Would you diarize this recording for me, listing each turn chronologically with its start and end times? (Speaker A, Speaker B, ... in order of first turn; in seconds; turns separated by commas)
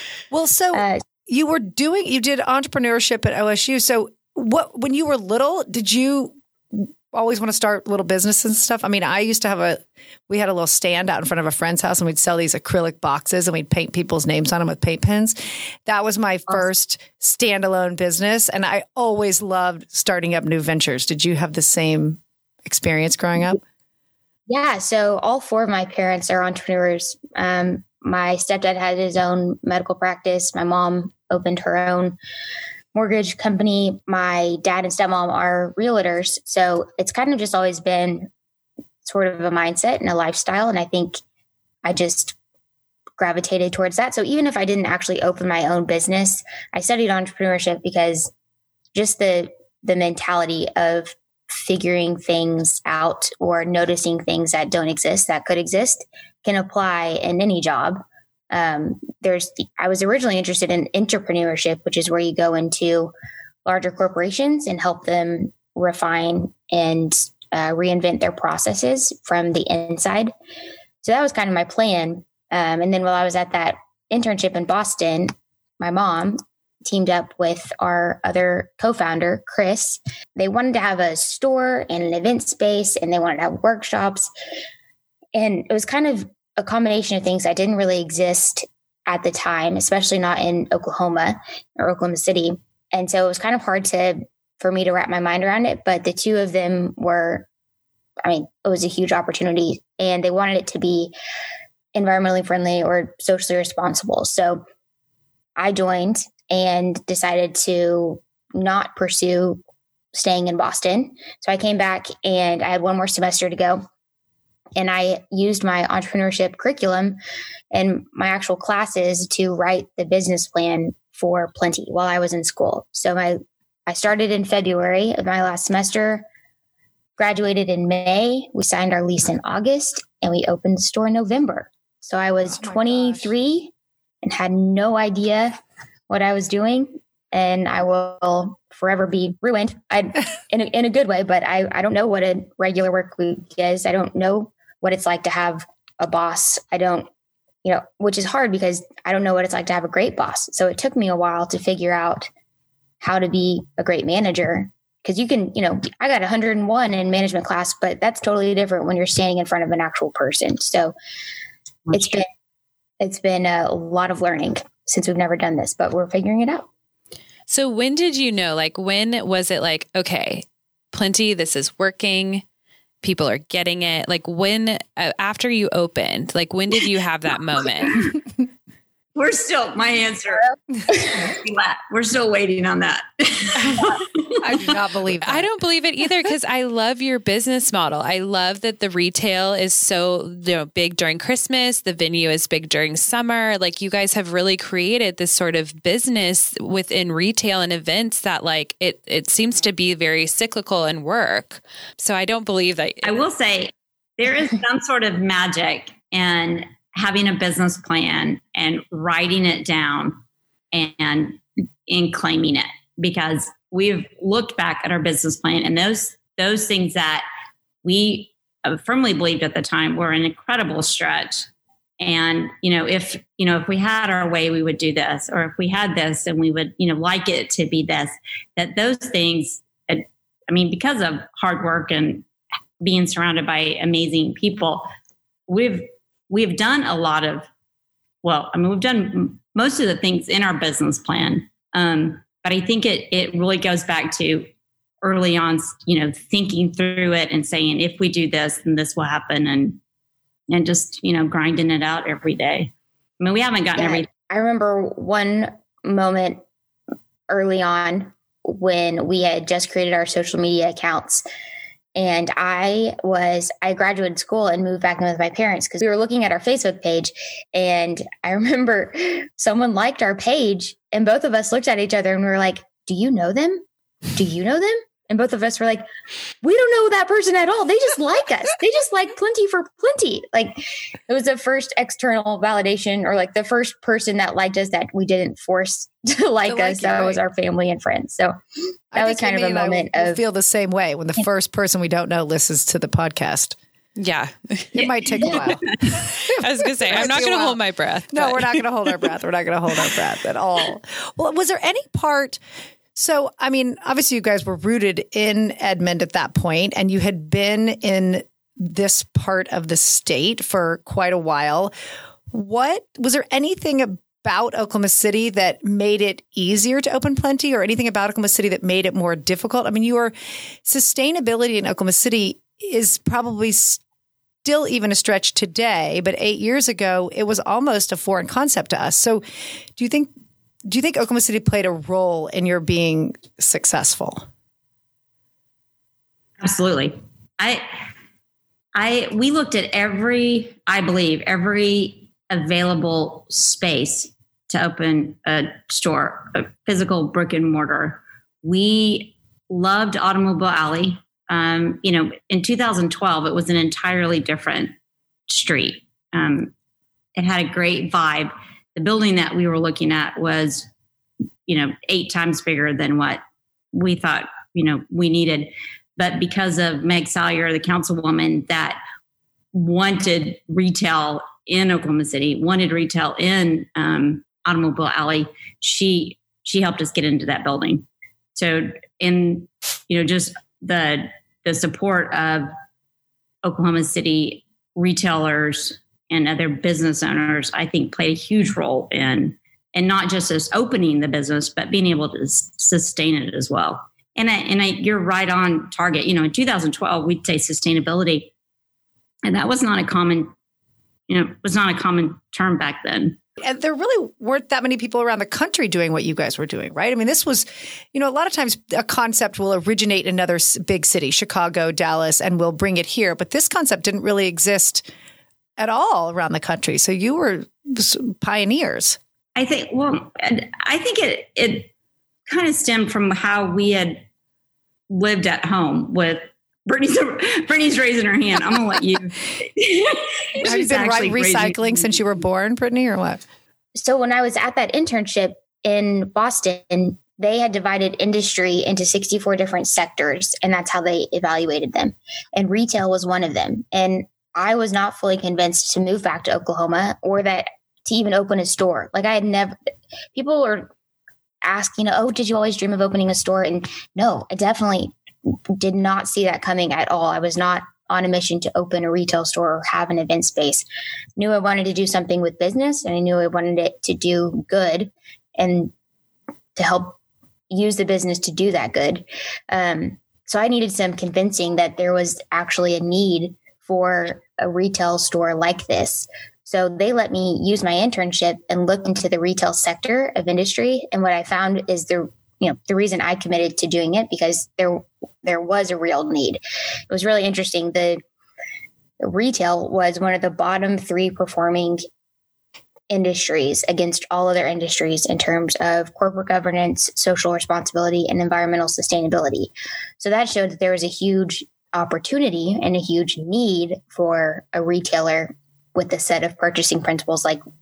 Speaker A: 0.3-15.3, Speaker B: 0.7-1.0, Speaker A: 15.8-23.6, Speaker B: 24.5-32.2, Speaker B: 32.9-38.3, Speaker B: 39.0-41.2, Speaker B: 41.8-42.4, Speaker B: 43.2-48.3, Speaker B: 48.9-63.1, Speaker B: 63.6-70.3, Speaker B: 71.0-84.3, Speaker B: 85.3-97.5, Speaker B: 98.2-101.1, Speaker B: 101.9-104.6, Speaker B: 105.6-109.6, Speaker B: 110.1-113.8, Speaker B: 114.8-117.2, Speaker B: 117.7-126.2, Speaker B: 127.2-133.7, Speaker A: 132.5-133.3, Speaker B: 134.2-135.6, Speaker B: 136.1-147.1, Speaker B: 147.6-152.3, Speaker B: 153.0-160.9, Speaker B: 161.9-162.3, Speaker B: 163.0-166.7, Speaker C: 167.5-172.4, Speaker C: 173.0-178.0, Speaker D: 179.1-184.4, Speaker A: 184.4-185.5, Speaker C: 185.2-203.1, Speaker D: 203.0-210.2, Speaker D: 210.7-217.2, Speaker D: 217.8-221.5, Speaker D: 222.0-232.2, Speaker D: 232.8-234.9, Speaker D: 235.5-237.5, Speaker D: 238.2-244.5, Speaker D: 245.0-249.8, Speaker D: 250.5-254.1, Speaker B: 253.8-256.4, Speaker B: 257.3-261.2, Speaker B: 261.9-273.6, Speaker B: 274.1-275.8, Speaker B: 276.4-288.3, Speaker A: 286.4-287.2, Speaker A: 288.9-293.6, Speaker B: 288.9-290.2, Speaker C: 294.0-295.4, Speaker A: 294.7-295.7, Speaker C: 296.0-298.6, Speaker A: 296.2-297.6, Speaker A: 298.1-302.4, Speaker A: 302.9-311.7, Speaker A: 312.3-320.1, Speaker A: 320.6-323.8, Speaker A: 324.4-329.2, Speaker A: 329.8-330.1, Speaker A: 330.7-334.2, Speaker D: 336.4-337.7, Speaker D: 338.7-354.7, Speaker D: 355.3-356.5, Speaker D: 357.1-360.7, Speaker D: 361.5-363.2, Speaker D: 363.7-368.8, Speaker D: 369.5-382.5, Speaker D: 383.4-398.3, Speaker D: 399.3-400.3, Speaker D: 401.1-403.2, Speaker A: 403.4-414.9, Speaker A: 415.6-419.0, Speaker D: 419.3-421.7, Speaker D: 422.3-424.0, Speaker D: 424.9-432.1, Speaker A: 430.4-433.2, Speaker B: 433.8-449.6, Speaker B: 450.1-450.7, Speaker B: 451.4-454.9, Speaker B: 455.5-460.6, Speaker B: 461.2-465.7, Speaker B: 466.6-466.9, Speaker B: 467.5-488.0, Speaker B: 489.0-491.8, Speaker B: 492.9-507.4